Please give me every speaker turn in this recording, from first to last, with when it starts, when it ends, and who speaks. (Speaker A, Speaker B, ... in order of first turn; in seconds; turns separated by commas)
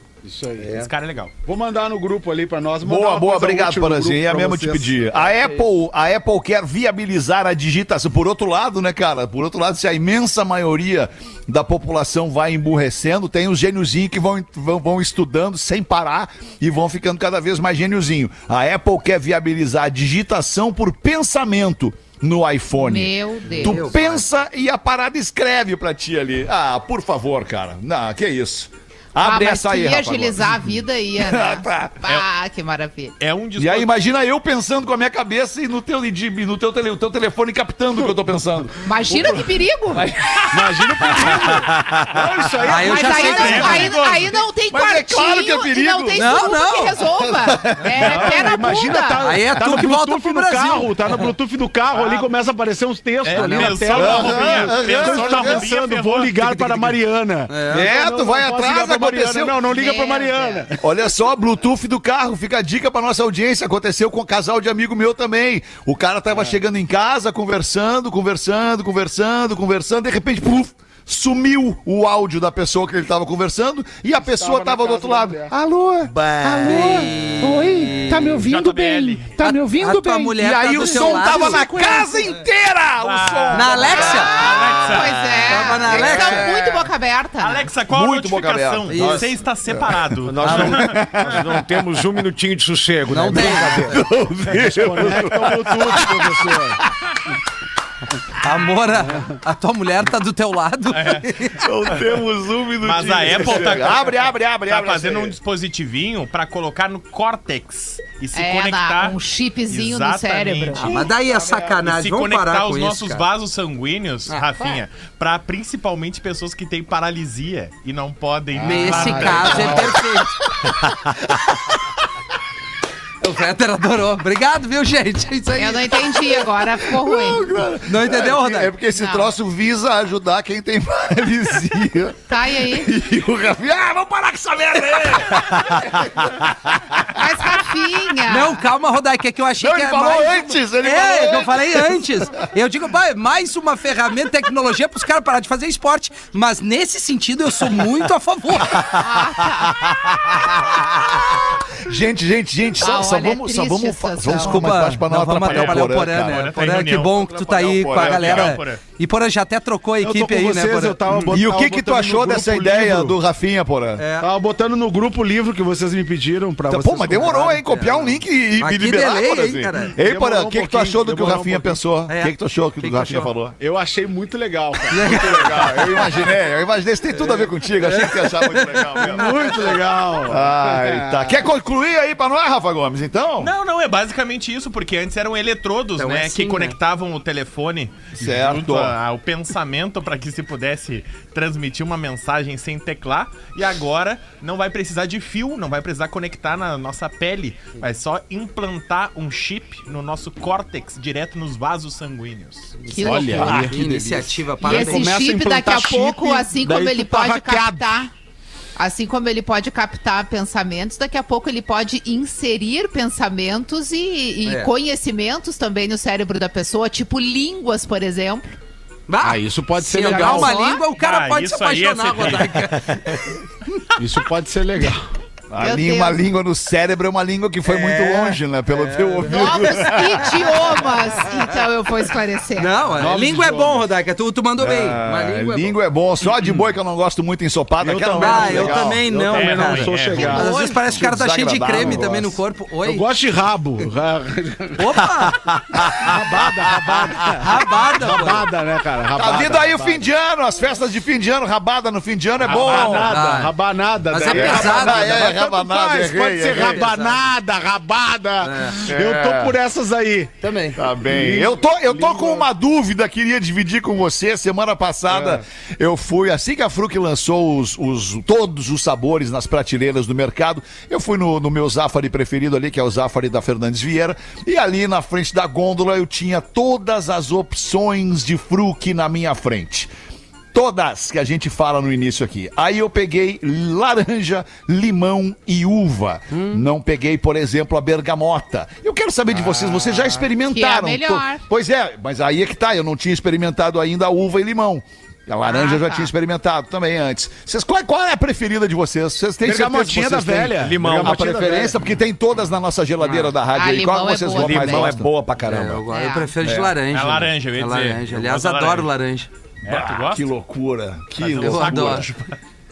Speaker A: 0.2-0.9, Speaker B: 0.6-1.3, Speaker A: 1.4-5.3, Speaker C: 2.8-32.0, Speaker D: 22.8-23.8, Speaker E: 23.5-24.2, Speaker D: 29.2-33.1, Speaker B: 33.2-34.0, Speaker C: 33.6-42.2, Speaker D: 38.8-40.1, Speaker A: 40.5-43.9, Speaker E: 42.6-43.9, Speaker D: 42.8-49.2, Speaker B: 43.2-44.4, Speaker C: 44.7-46.2, Speaker E: 46.1-47.0, Speaker C: 47.1-48.5, Speaker A: 48.0-60.8, Speaker E: 49.2-51.1, Speaker B: 51.9-52.3, Speaker B: 53.2-56.8, Speaker E: 53.3-54.0, Speaker C: 53.9-55.6, Speaker E: 57.5-57.9, Speaker C: 57.7-59.6, Speaker D: 59.7-60.6, Speaker C: 60.8-86.5, Speaker A: 74.2-75.5, Speaker E: 76.6-78.5, Speaker B: 78.3-79.4, Speaker E: 79.4-81.9, Speaker A: 80.7-82.1, Speaker B: 83.0-85.4, Speaker E: 83.5-84.4, Speaker D: 83.9-87.7, Speaker E: 85.5-86.8, Speaker B: 87.4-91.3, Speaker C: 87.9-89.2, Speaker E: 88.9-89.2, Speaker F: 90.2-94.1, Speaker E: 90.4-90.8, Speaker C: 90.8-91.3, Speaker E: 93.1-94.0, Speaker C: 93.4-96.6, Speaker A: 94.6-96.8, Speaker F: 95.0-95.3, Speaker E: 98.4-101.6, Speaker B: 100.9-101.3, Speaker C: 101.6-105.3, Speaker B: 102.8-109.2, Speaker D: 108.3-110.9, Speaker B: 109.7-111.0, Speaker E: 110.8-113.2, Speaker B: 111.8-120.0, Speaker E: 114.3-114.7, Speaker A: 118.6-119.8, Speaker E: 118.6-120.5, Speaker E: 123.2-126.1, Speaker D: 125.5-127.5, Speaker C: 126.6-137.2, Speaker E: 127.8-128.7, Speaker D: 128.9-129.3, Speaker D: 132.3-132.9, Speaker D: 137.1-138.6, Speaker E: 138.2-148.9, Speaker C: 139.6-142.0, Speaker D: 148.9-149.9, Speaker C: 150.1-156.5, Speaker D: 152.8-154.7, Speaker E: 154.3-161.1, Speaker B: 155.4-158.8, Speaker C: 157.6-158.6, Speaker A: 160.0-163.2, Speaker C: 161.3-164.0, Speaker E: 164.0-164.3, Speaker A: 164.2-167.5, Speaker C: 166.7-173.6, Speaker E: 167.2-170.0, Speaker A: 170.0-171.9, Speaker E: 172.1-173.3, Speaker A: 173.6-176.2, Speaker E: 174.9-175.4, Speaker C: 175.1-183.5, Speaker E: 177.8-179.0, Speaker A: 179.0-181.4, Speaker B: 183.4-202.8, Speaker E: 186.0-186.8, Speaker C: 188.2-188.9, Speaker D: 202.9-203.6, Speaker E: 203.0-205.2, Speaker A: 203.0-208.0, Speaker C: 203.3-204.2, Speaker D: 204.6-208.1, Speaker D: 208.8-218.5, Speaker E: 214.4-214.7, Speaker E: 219.1-223.3, Speaker A: 219.2-220.5, Speaker D: 219.9-220.8, Speaker B: 220.9-222.8, Speaker A: 224.0-225.1, Speaker C: 225.5-230.5, Speaker D: 225.6-226.2, Speaker E: 227.7-228.4, Speaker E: 228.9-230.3, Speaker D: 229.3-232.7, Speaker E: 232.5-235.7, Speaker A: 232.9-233.9, Speaker C: 234.6-239.0, Speaker A: 237.8-240.7, Speaker E: 238.1-243.1, Speaker B: 239.3-240.5, Speaker C: 240.8-242.4, Speaker A: 241.7-242.1, Speaker A: 242.8-244.9, Speaker E: 244.8-245.5, Speaker C: 245.7-246.1, Speaker A: 246.0-250.1, Speaker E: 247.4-248.5, Speaker C: 249.1-253.2, Speaker A: 252.4-260.5, Speaker E: 252.5-253.5, Speaker E: 254.1-255.2, Speaker C: 254.2-256.9, Speaker E: 256.6-257.2, Speaker E: 258.4-258.8, Speaker C: 258.8-259.6, Speaker E: 260.4-260.8, Speaker C: 260.8-279.9, Speaker A: 261.0-262.5, Speaker A: 265.1-265.4, Speaker C: 280.5-305.1, Speaker E: 286.3-286.6, Speaker A: 289.5-290.2, Speaker D: 290.5-291.4, Speaker D: 295.4-296.1, Speaker A: 299.4-301.7, Speaker F: 300.5-301.7, Speaker E: 303.0-303.3, Speaker D: 303.5-304.9, Speaker F: 304.3-305.8, Speaker E: 305.4-309.3, Speaker D: 305.9-306.3, Speaker C: 306.4-306.7, Speaker B: 306.9-308.9, Speaker B: 309.6-310.3, Speaker C: 309.6-312.1, Speaker B: 311.2-312.3, Speaker E: 311.4-312.1